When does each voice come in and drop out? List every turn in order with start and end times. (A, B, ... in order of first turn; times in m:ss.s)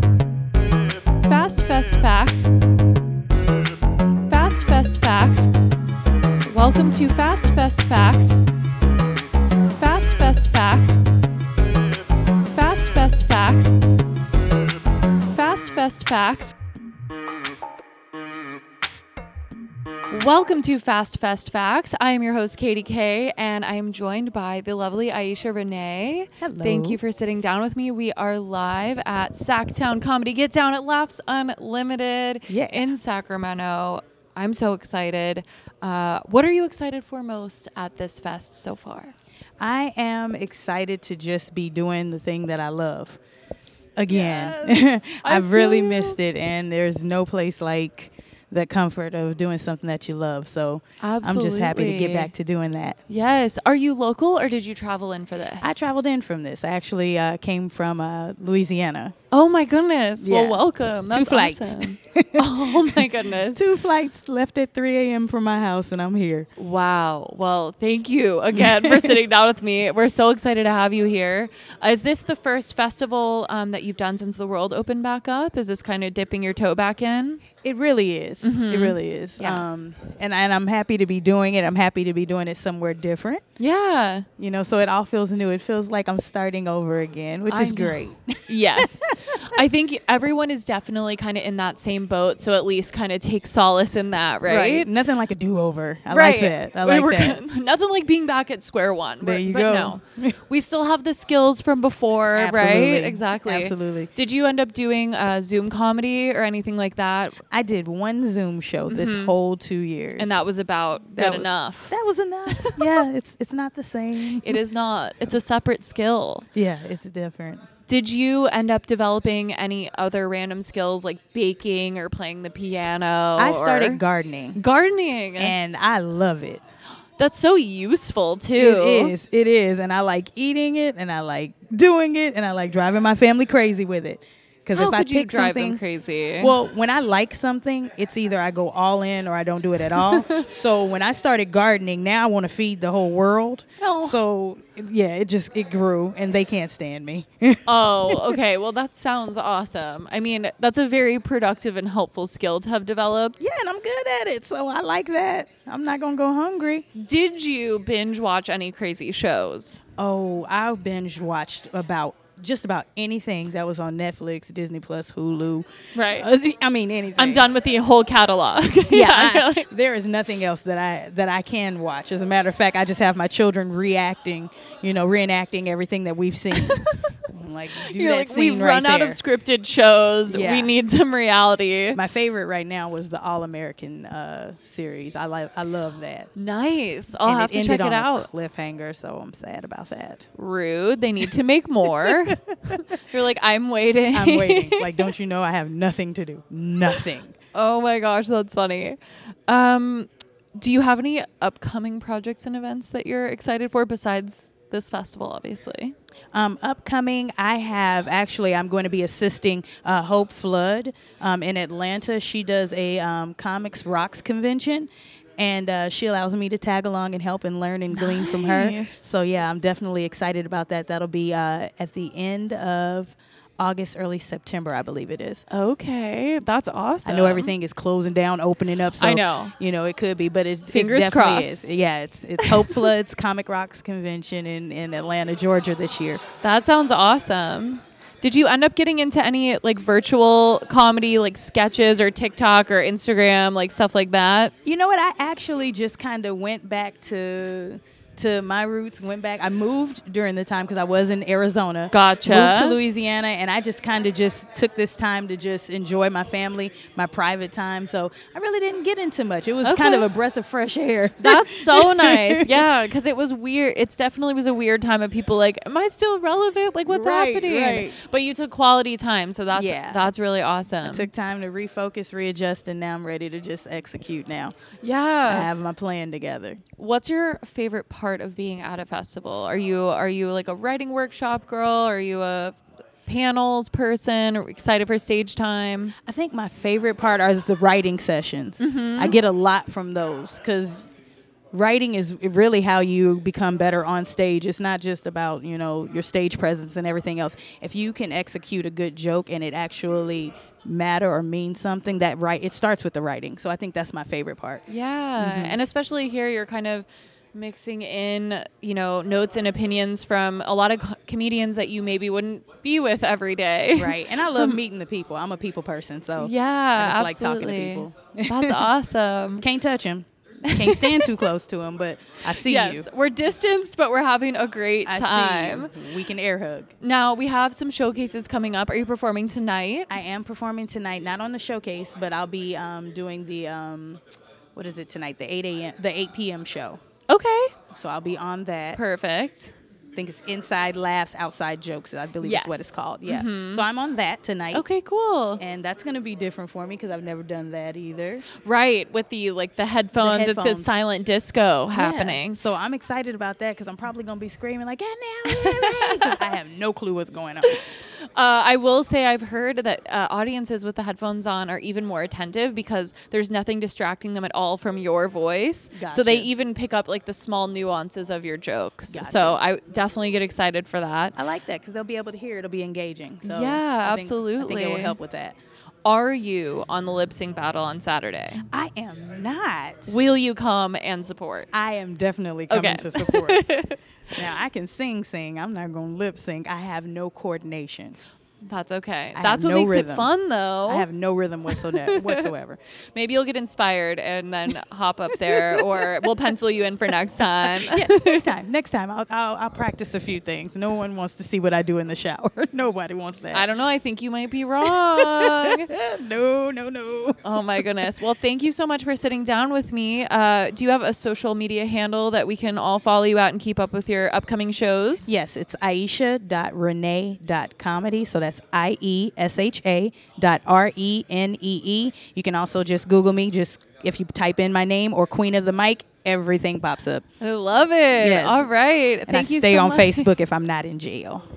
0:01.3-0:02.5 A
0:04.3-0:05.5 A
0:06.4-0:08.4 A
0:09.7-0:11.0 A
0:12.4-0:13.8 A
0:15.3-0:16.5 A
0:20.1-0:39.1 A
0:26.4-0:27.0 B
0:32.5-0:33.0 B
0:39.6-0:43.2 B
0:44.0-0:53.0 B
0:44.1-0:46.2 A
0:51.0-0:52.3 A
0:53.1-0:55.9 A
0:55.6-0:59.2 B
0:59.3-1:03.6 A
1:00.2-1:06.5 B
1:06.6-1:17.4 A
1:08.6-1:09.2 B
1:17.6-1:23.4 B
1:18.4-1:19.6 A
1:23.6-1:24.3 A
1:24.4-1:29.5 B
1:27.5-1:34.9 A
1:34.5-1:37.4 B
1:36.1-1:47.4 A
1:39.2-1:40.4 B
1:42.3-1:44.1 B
1:47.5-1:50.4 B
1:48.9-1:49.3 A
1:50.2-1:52.0 A
1:51.2-1:54.6 B
1:52.5-1:52.9 A
1:54.4-1:56.5 A
1:56.6-1:57.6 B
1:57.9-2:04.0 A
2:03.4-2:04.6 B
2:04.5-2:05.5 A
2:05.4-2:06.6 B
2:07.2-2:09.2 A
2:08.6-2:15.8 B
2:14.8-2:16.6 A
2:16.4-2:28.4 B
2:19.9-2:20.4 A
2:23.8-2:24.2 A
2:27.7-2:33.4 A
2:33.4-2:36.9 B
2:37.0-2:39.8 A
2:40.0-2:47.5 B
2:46.0-2:46.3 A
2:47.2-2:49.7 A
2:48.9-2:59.2 B
2:56.5-2:57.0 A
2:57.8-3:02.0 A
3:00.3-3:00.8 B
3:02.0-3:06.3 B
3:06.4-3:08.3 A
3:07.2-3:10.3 B
3:10.4-3:15.1 A
3:12.0-3:12.8 B
3:14.1-3:17.3 B
3:17.5-3:26.0 A
3:26.3-3:45.4 B
3:37.9-3:39.0 A
3:45.5-3:47.5 A
3:47.0-3:56.2 B
3:49.0-3:49.5 A
3:50.7-3:51.8 A
3:52.4-3:52.9 A
3:56.4-4:04.5 A
4:04.6-4:22.6 B
4:11.9-4:12.8 A
4:19.6-4:20.1 A
4:21.2-4:31.1 A
4:26.8-4:28.0 B
4:29.5-4:30.1 B
4:30.8-4:34.6 B
4:34.8-4:35.5 A
4:35.2-4:36.6 B
4:36.8-4:46.0 A
4:46.1-4:50.8 B
4:48.6-4:49.2 A
4:51.5-5:04.6 B
5:04.7-5:14.6 A
5:05.2-5:05.6 B
5:13.8-5:18.7 B
5:16.2-5:19.4 A
5:19.4-5:22.9 B
5:20.5-5:21.2 A
5:22.4-5:25.7 A
5:24.9-5:26.7 B
5:26.8-5:29.9 A
5:29.9-5:34.0 B
5:34.6-5:36.8 B
5:37.1-5:37.6 A
5:37.7-5:38.8 B
5:38.8-5:39.5 A
5:40.0-5:44.6 B
5:42.2-5:43.6 A
5:44.5-5:45.4 A
5:45.4-5:48.3 B
5:48.4-5:52.4 A
5:50.0-5:50.7 B
5:51.7-5:57.6 B
5:55.3-5:56.2 A
5:57.5-6:11.2 A
6:05.7-6:06.3 B
6:08.9-6:09.4 B
6:11.2-6:15.4 B
6:13.2-6:15.0 A
6:15.8-6:18.5 A
6:18.5-6:20.0 B
6:19.9-6:21.5 A
6:21.5-6:23.4 B
6:22.5-6:23.8 A
6:24.2-6:28.0 B
6:28.4-6:30.9 A
6:29.2-6:30.1 B
6:30.7-6:32.6 B
6:31.5-6:32.3 A
6:32.9-6:38.3 A
6:35.3-6:35.9 B
6:37.4-6:43.5 B
6:43.3-6:45.7 A
6:44.7-6:47.6 B
6:47.2-6:55.1 A
6:55.1-7:07.0 B
7:07.2-7:10.1 A
7:08.0-7:08.5 B
7:09.1-7:11.2 B